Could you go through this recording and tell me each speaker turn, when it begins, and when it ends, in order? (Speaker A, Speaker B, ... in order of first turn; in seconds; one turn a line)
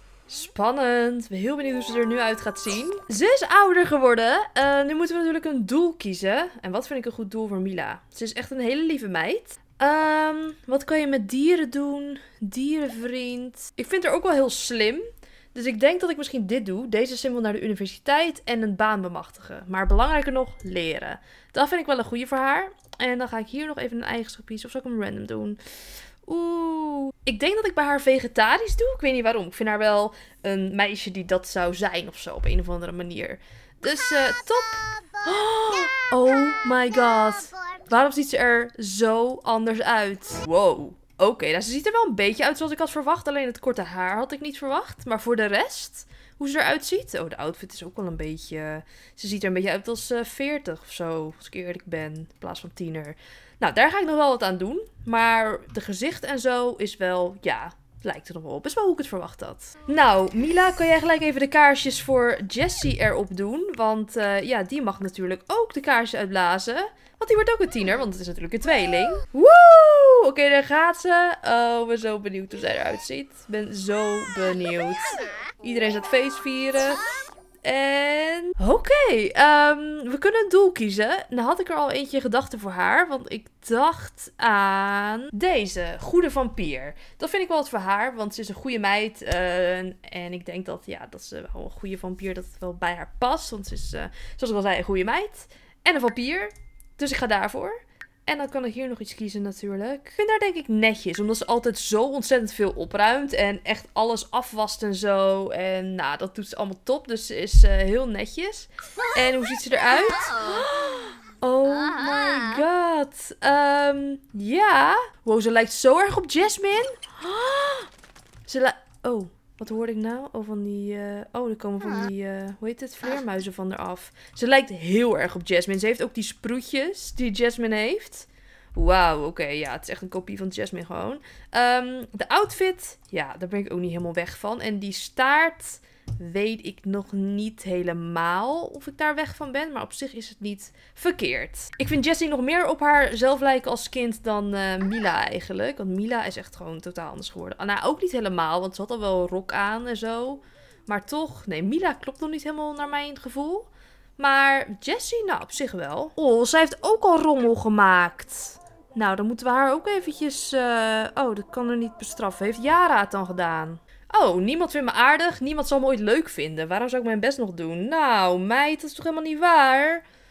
Speaker A: 0.3-25.6
Speaker A: 26.3-77.1
Speaker A: 77.6-117.9
Speaker A: 118.5-170.1